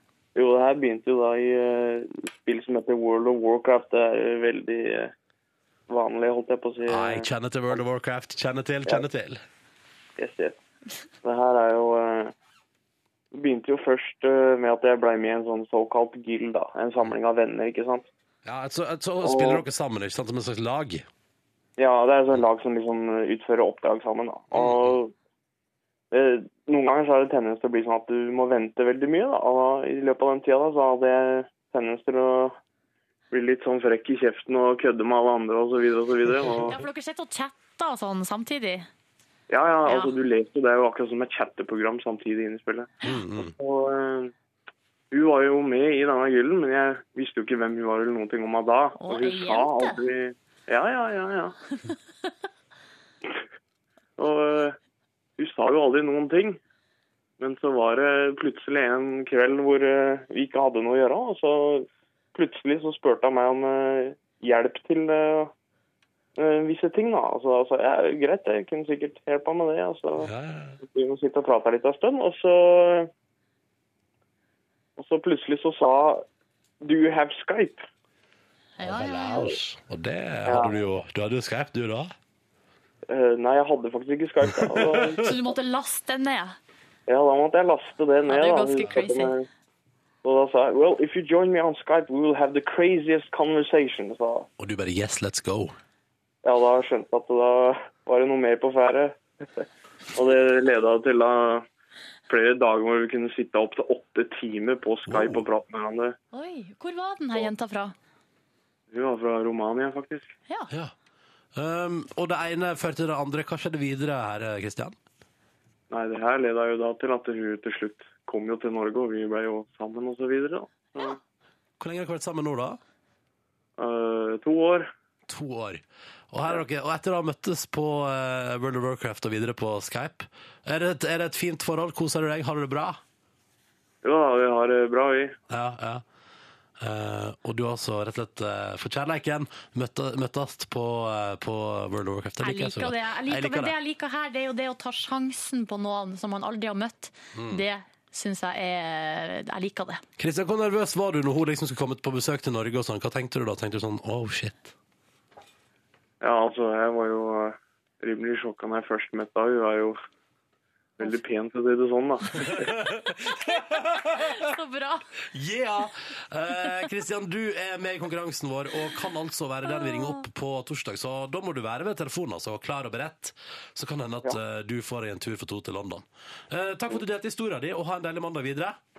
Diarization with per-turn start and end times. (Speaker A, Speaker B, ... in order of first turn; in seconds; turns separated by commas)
Speaker A: 0.3-5.1, Speaker A: 5.9-7.8, Speaker B: 6.9-9.4, Speaker A: 10.2-10.6, Speaker A: 11.2-12.3, Speaker A: 13.3-18.1, Speaker B: 18.4-21.1, Speaker A: 19.2-19.6, Speaker A: 21.8-25.1, Speaker B: 24.5-25.0, Speaker A: 26.1-32.6, Speaker A: 33.3-36.8, Speaker C: 36.7-38.9, Speaker A: 39.5-44.3, Speaker C: 39.9-40.1, Speaker B: 43.0-43.5, Speaker A: 45.1-51.6, Speaker C: 49.0-50.0, Speaker A: 54.2-54.8, Speaker A: 55.4-56.6, Speaker A: 57.4-65.5, Speaker A: 66.4-73.1, Speaker B: 70.2-70.8, Speaker A: 75.0-76.2, Speaker A: 76.8-77.8, Speaker C: 78.8-79.5, Speaker B: 78.8-82.1, Speaker A: 80.5-80.8, Speaker A: 83.1-85.3, Speaker B: 84.6-85.2, Speaker C: 85.2-86.6, Speaker A: 87.1-89.5, Speaker C: 88.3-89.3, Speaker A: 90.2-94.5, Speaker B: 94.6-95.8, Speaker A: 96.4-101.7, Speaker A: 102.3-106.2, Speaker B: 105.1-105.4, Speaker C: 106.3-108.0, Speaker A: 108.9-110.3, Speaker B: 111.5-115.0, Speaker A: 115.9-121.2, Speaker B: 121.8-122.8, Speaker A: 123.8-124.9, Speaker B: 125.3-133.0, Speaker A: 134.0-135.4, Speaker B: 135.5-136.0, Speaker B: 136.8-143.8, Speaker C: 142.4-150.0, Speaker B: 147.3-147.6, Speaker B: 150.2-154.7, Speaker A: 156.2-160.0, Speaker A: 161.0-162.8, Speaker B: 162.4-164.4, Speaker C: 163.4-165.0, Speaker B: 165.3-178.8